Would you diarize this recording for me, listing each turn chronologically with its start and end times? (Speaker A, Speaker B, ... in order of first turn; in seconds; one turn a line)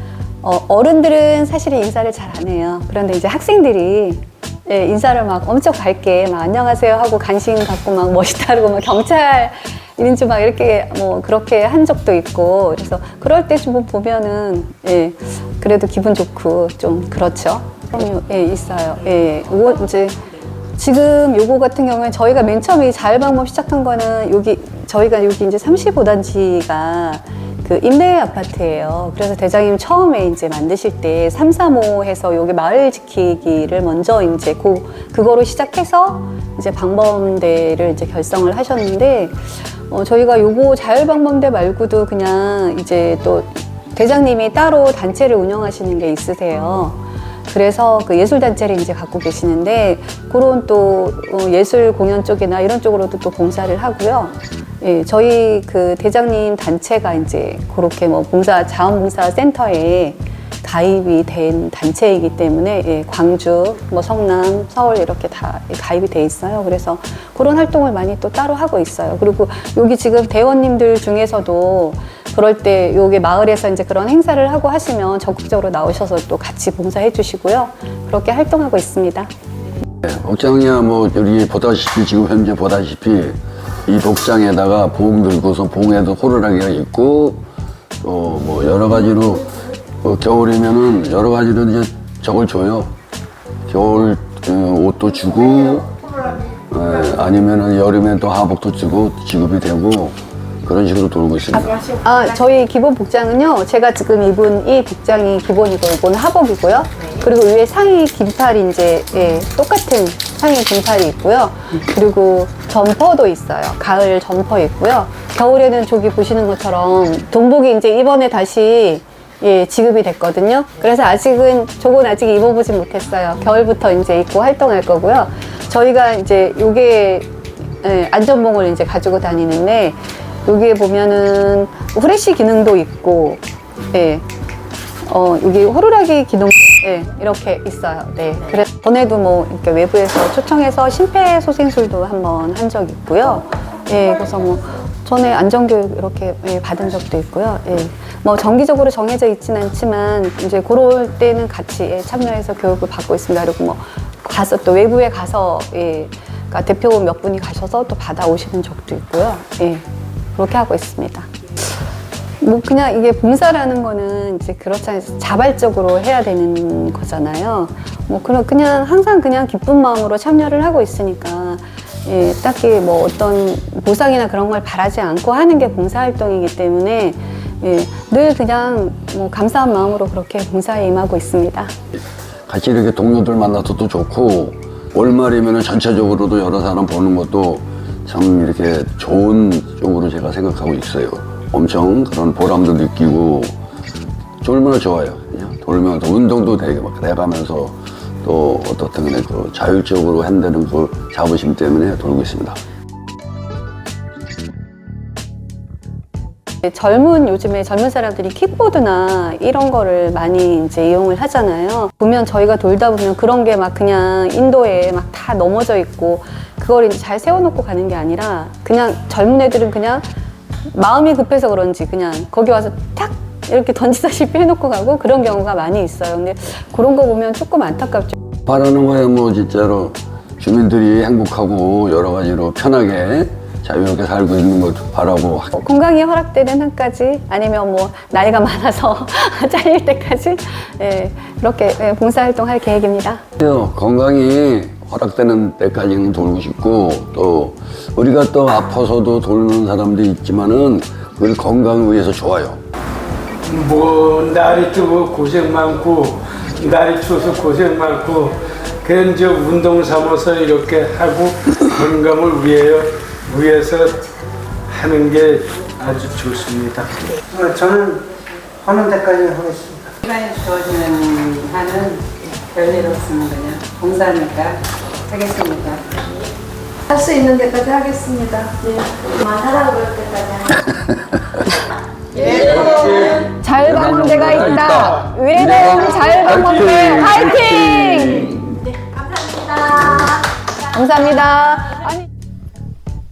Speaker A: 0.4-79.3
Speaker B: 80.0-87.5
Speaker B: 88.0-92.9
Speaker B: 93.7-101.8
Speaker A: 101.8-134.3
Speaker A: 135.1-159.8
Speaker A: 160.4-161.3
Speaker A: 162.4-181.7
Speaker B: 182.5-193.5
Speaker B: 194.4-202.6
Speaker A: 206.6-220.1
Speaker A: 220.7-228.2
Speaker B: 228.5-235.5
Speaker A: 235.5-243.2
Speaker B: 243.4-252.6
Speaker C: 253.4-264.1
Speaker C: 264.7-267.2
Speaker D: 267.3-268.1
Speaker E: 267.6-268.4
Speaker D: 268.6-269.9
Speaker E: 270.0-276.1
Speaker F: 276.9-280.5
Speaker A: 277.1-278.5
Speaker B: 280.5-281.4
Speaker B: 282.1-288.6
Speaker A: 282.2-288.4
Speaker A: 289.3-292.0